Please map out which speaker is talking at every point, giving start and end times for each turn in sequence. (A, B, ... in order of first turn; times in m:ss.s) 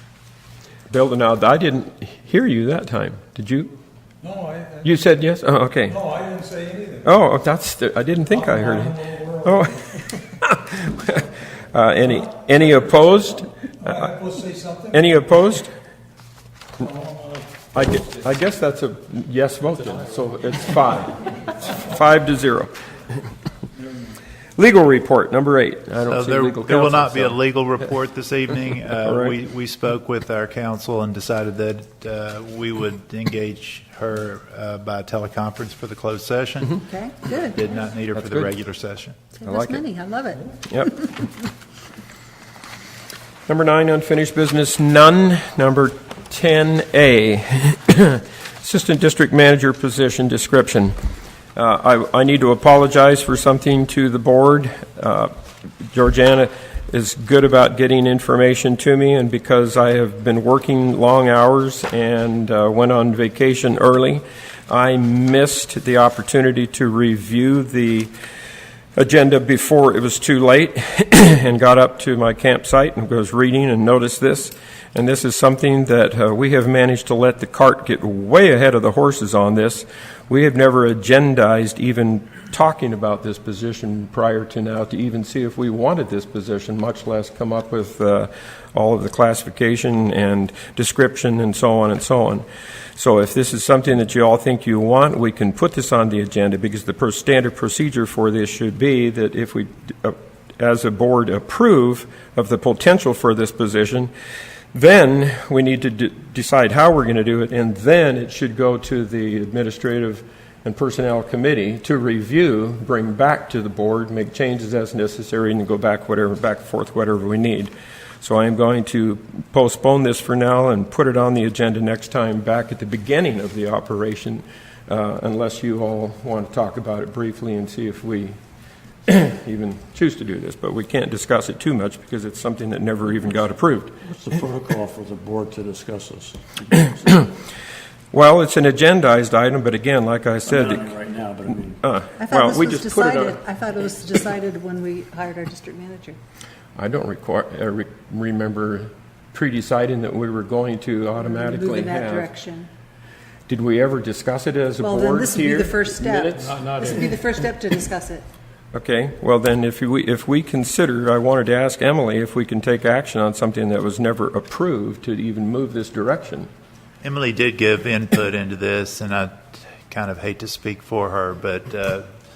0:00.9-0:03.7 A
0:04.2-0:05.0 B
0:04.8-0:06.0 A
0:05.8-0:07.1 B
0:07.0-0:14.1 A
0:08.3-0:09.9 B
0:13.8-0:15.4 B
0:14.9-0:15.7 A
0:16.8-0:17.8 B
0:17.7-0:22.7 A
0:23.7-0:24.2 B
0:24.6-0:27.4 A
0:26.1-0:39.2 C
0:29.0-0:29.4 A
0:36.8-0:37.6 D
0:38.1-0:38.5 A
0:39.4-0:41.2 D
0:39.4-0:39.8 A
0:43.5-0:50.9 A
0:51.5-1:08.1 A
1:08.9-1:32.4 A
1:33.0-1:44.1 A
1:44.7-2:08.4 A
2:09.1-2:14.0 A
2:14.0-2:17.1 E
2:18.1-2:20.9 A
2:20.4-2:21.8 E
2:21.8-2:23.4 A
2:22.2-2:26.2 D
2:26.8-2:32.3 A
2:31.2-2:32.7 D
2:33.5-2:36.5 A
2:34.8-2:38.2 D
2:38.7-2:46.5 A
2:47.0-2:52.1 C